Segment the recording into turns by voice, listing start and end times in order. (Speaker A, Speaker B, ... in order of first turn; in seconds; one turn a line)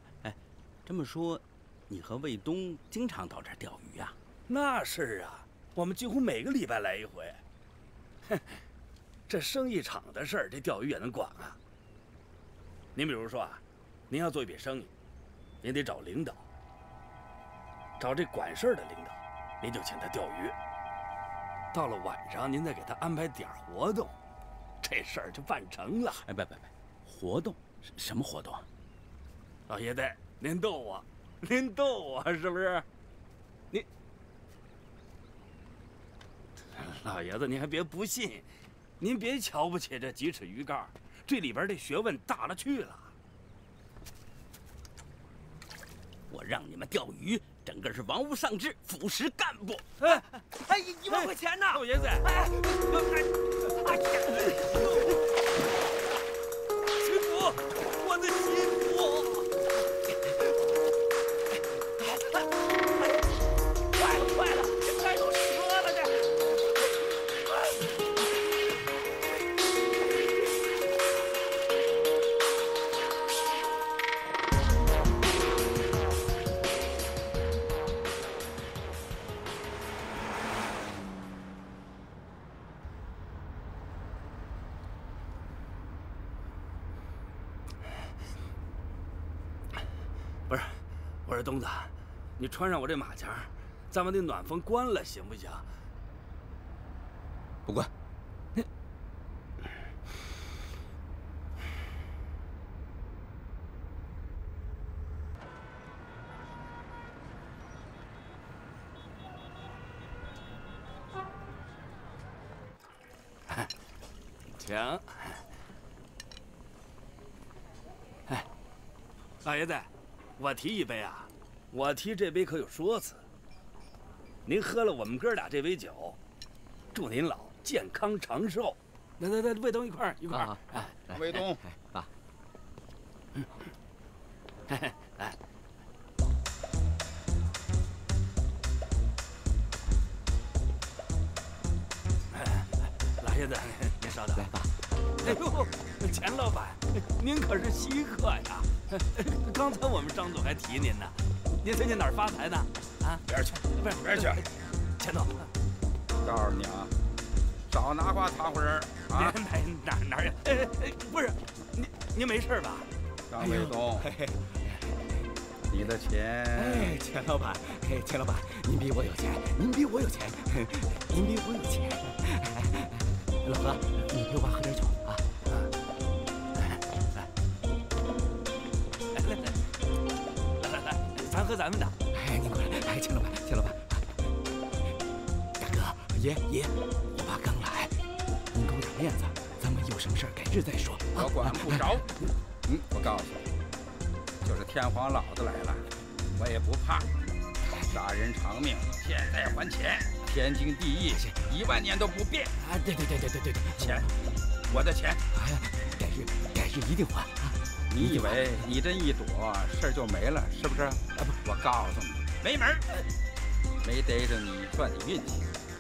Speaker A: 0.2-4.2
Speaker B: 4.5-7.4
Speaker B: 8.3-8.6
Speaker B: 9.3-11.6
Speaker B: 12.9-14.9
Speaker B: 15.6-16.4
Speaker B: 18.0-20.5
Speaker B: 21.7-24.1
Speaker B: 24.8-26.2
Speaker A: 26.2-28.6
Speaker B: 29.7-32.8
Speaker B: 36.7-38.5
Speaker B: 39.0-43.1
Speaker A: 46.3-49.9
Speaker C: 50.7-52.8
Speaker B: 51.1-52.3
Speaker B: 53.8-55.2
Speaker B: 57.0-59.5
Speaker B: 64.0-66.2
Speaker B: 90.5-95.7
Speaker C: 97.7-97.9
Speaker B: 114.6-115.4
Speaker B: 119.4-123.2
Speaker B: 124.5-126.2
Speaker B: 126.9-130.9
Speaker C: 130.3-132.1
Speaker D: 131.1-131.6
Speaker B: 134.7-135.3
Speaker B: 142.3-144.4
Speaker C: 144.3-145.6
Speaker B: 145.2-153.2
Speaker D: 153.3-154.4
Speaker B: 155.0-155.5
Speaker D: 156.2-156.9
Speaker D: 157.7-159.4
Speaker B: 159.1-162.9
Speaker D: 163.3-164.1
Speaker C: 163.4-165.3
Speaker D: 165.7-166.9
Speaker C: 166.6-175.3
Speaker B: 176.6-177.2
Speaker B: 179.1-179.6
Speaker B: 180.6-181.9
Speaker C: 182.1-184.2
Speaker C: 185.6-192.1
Speaker D: 191.1-192.1
Speaker D: 192.7-193.5
Speaker D: 194.4-197.1
Speaker D: 197.9-202.5
Speaker C: 201.1-201.4
Speaker C: 202.6-204.1
Speaker D: 203.8-204.1
Speaker D: 204.7-205.2
Speaker C: 205.3-208.7
Speaker D: 207.9-212.8
Speaker D: 213.8-215.5